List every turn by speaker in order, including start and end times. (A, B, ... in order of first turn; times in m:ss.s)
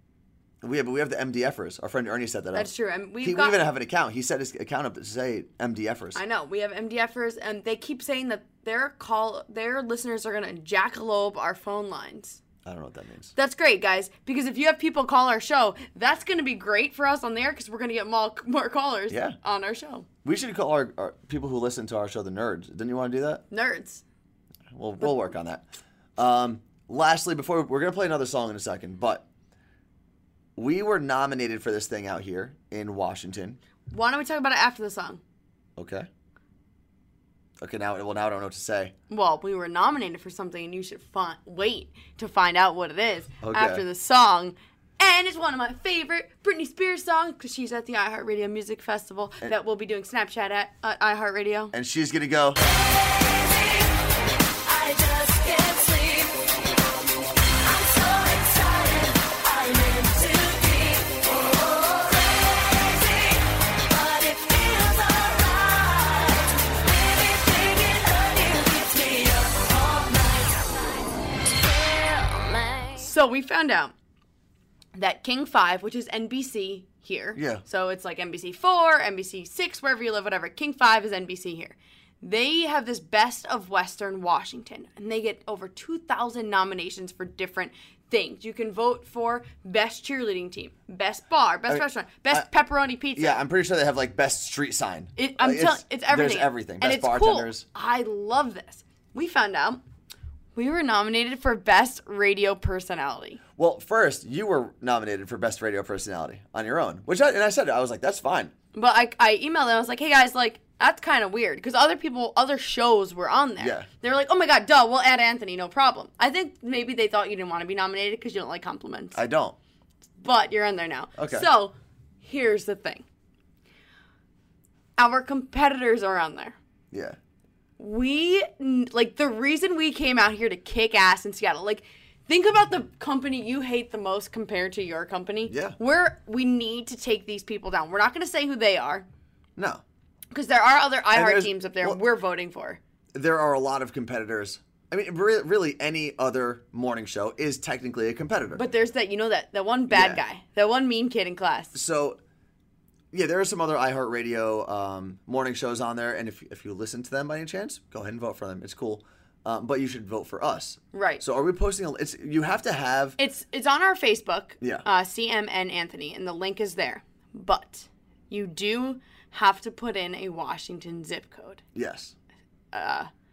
0:00.6-0:06.2 A
0:02.6-0:03.6 B
0:06.2-0:12.4 B
0:12.6-0:13.3 A
0:13.4-0:20.1 B
0:19.1-0:19.4 A
0:20.2-0:23.4 A
0:23.5-0:24.0 B
0:24.7-0:25.6 A
0:26.2-0:29.3 A
0:30.6-0:33.6 A
0:33.9-0:35.2 B
0:35.8-0:36.1 A
0:37.6-0:38.9 A
0:39.1-0:51.7 B
0:43.4-0:43.8 A
0:51.7-0:52.6 A
0:52.9-0:53.9 C
0:54.6-0:56.5 C
0:57.6-1:13.0 C
1:13.0-1:13.9 B
1:15.0-1:33.4 B
1:17.4-1:17.6 A
1:31.7-1:32.5 A
1:33.2-1:37.6 A
1:35.2-1:39.8 B
1:40.6-1:43.4 B
1:43.6-1:48.5 A
1:48.7-1:59.2 B
1:53.6-1:53.9 A
1:59.2-1:59.6 A
2:00.2-2:03.0 B
2:01.2-2:01.5 A
2:05.0-2:06.6 B
2:06.9-2:07.2 A
2:07.8-2:19.1 B
2:15.5-2:15.8 A
2:19.6-2:19.8 A
2:20.3-2:22.8 B
2:21.1-2:22.0 A
2:23.1-2:28.6 A
2:28.5-2:31.8 B
2:29.9-2:30.2 A
2:31.7-2:32.2 A
2:33.1-2:43.2 A
2:40.9-2:41.2 B
2:43.2-2:51.6 B
2:51.8-2:52.2 A
2:52.7-2:53.1 B